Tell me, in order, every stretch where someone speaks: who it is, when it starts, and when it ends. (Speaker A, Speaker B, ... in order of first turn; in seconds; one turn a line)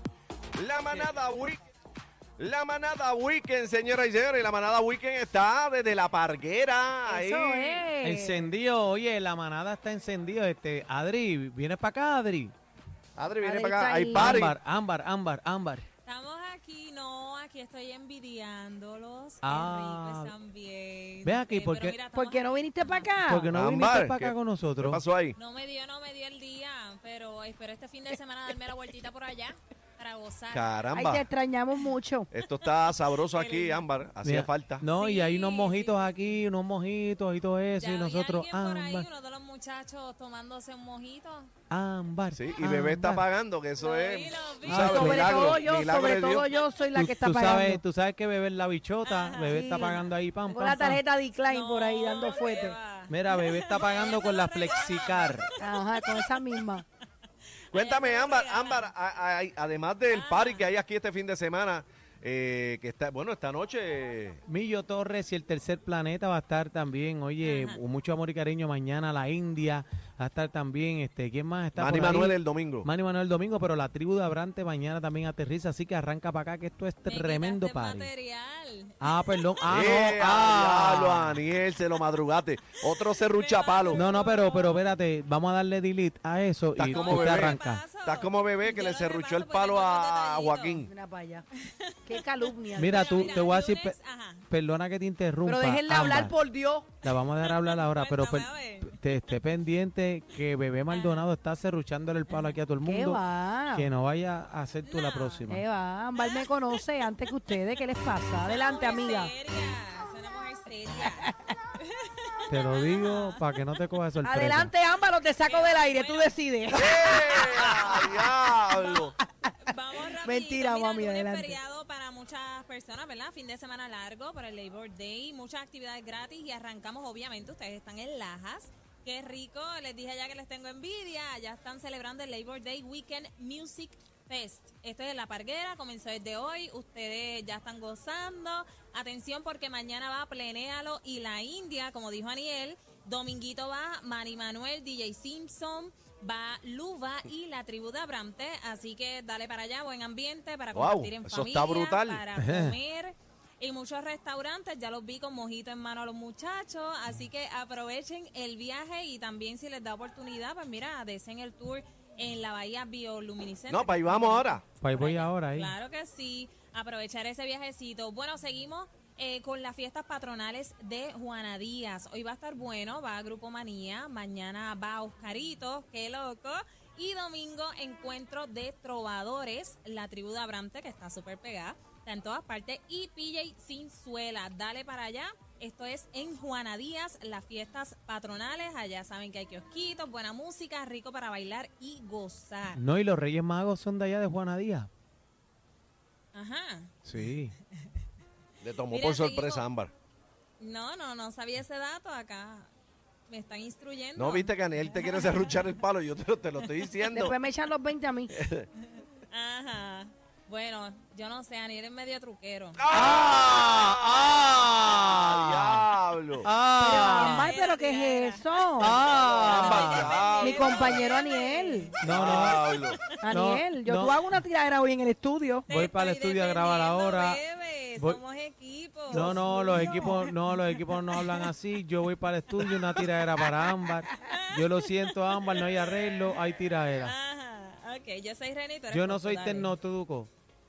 Speaker A: 0.6-1.6
Speaker A: 2.4-7.6
Speaker B: 7.0-8.4
Speaker C: 8.0-12.5
Speaker A: 13.2-14.5
Speaker B: 13.4-14.5
Speaker C: 14.1-15.8
Speaker D: 16.0-23.2
Speaker C: 19.4-20.3
Speaker C: 21.2-22.0
Speaker B: 22.1-23.5
Speaker C: 23.2-25.0
Speaker A: 23.6-24.3
Speaker A: 24.9-25.3
Speaker D: 25.3-30.9
Speaker A: 30.5-31.2
Speaker B: 30.9-32.3
Speaker A: 32.3-34.8
Speaker D: 32.4-33.8
Speaker C: 34.2-39.1
Speaker D: 34.9-36.4
Speaker D: 37.8-41.5
Speaker C: 41.7-43.3
Speaker A: 42.4-44.9
Speaker D: 43.8-45.7
Speaker C: 44.6-45.5
Speaker B: 44.8-47.8
Speaker A: 45.4-46.4
Speaker C: 46.9-51.0
Speaker D: 49.0-49.8
Speaker B: 49.5-52.8
Speaker D: 51.5-56.6
Speaker C: 53.1-55.5
Speaker B: 55.6-56.8
Speaker D: 57.7-58.9
Speaker A: 57.7-64.4
Speaker D: 60.1-60.7
Speaker C: 64.5-78.1
Speaker D: 67.4-67.8
Speaker A: 71.8-72.9
Speaker D: 77.0-80.0
Speaker C: 79.0-81.4
Speaker A: 79.7-84.0
Speaker D: 82.8-84.8
Speaker C: 83.9-87.8
Speaker A: 86.8-90.8
Speaker D: 86.8-90.8
Speaker B: 90.8-91.4
Speaker D: 91.6-94.4
Speaker B: 92.0-93.3
Speaker C: 92.7-94.0
Speaker C: 94.5-96.3
Speaker B: 95.4-96.9
Speaker C: 97.0-103.2
Speaker D: 97.0-99.0
Speaker D: 100.9-101.3
Speaker D: 102.3-102.5
Speaker B: 102.8-103.9
Speaker C: 103.7-105.6
Speaker D: 104.8-105.5
Speaker B: 105.5-109.3
Speaker D: 106.2-106.9
Speaker D: 108.4-113.4
Speaker B: 111.2-111.5
Speaker C: 112.5-114.7
Speaker B: 114.2-119.5
Speaker D: 115.4-117.2
Speaker D: 118.7-192.8
Speaker B: 120.2-121.6
Speaker A: 150.7-152.1
Speaker C: 152.3-152.8
Speaker A: 163.7-164.6
Speaker C: 164.8-165.7
Speaker C: 192.7-194.9
Speaker D: 196.3-197.9
Speaker C: 197.0-197.5
Speaker A: 198.6-199.9
Speaker D: 198.8-199.6
Speaker D: 200.6-202.7
Speaker D: 203.3-205.8
Speaker A: 204.2-206.8
Speaker D: 206.6-207.0
Speaker B: 207.0-208.4
Speaker D: 208.8-212.8
Speaker A: 212.8-213.7
Speaker C: 212.9-215.9
Speaker A: 215.3-216.5
Speaker C: 216.4-217.5
Speaker B: 216.7-219.0
Speaker D: 217.0-223.1
Speaker C: 218.8-220.2
Speaker A: 219.1-221.0
Speaker B: 219.9-222.0
Speaker C: 222.0-224.2
Speaker A: 222.2-222.9
Speaker B: 223.2-225.7
Speaker D: 225.7-231.5
Speaker C: 225.7-227.4
Speaker C: 229.1-237.1
Speaker B: 229.1-230.2
Speaker D: 232.5-236.3
Speaker D: 237.0-239.7
Speaker C: 238.9-240.3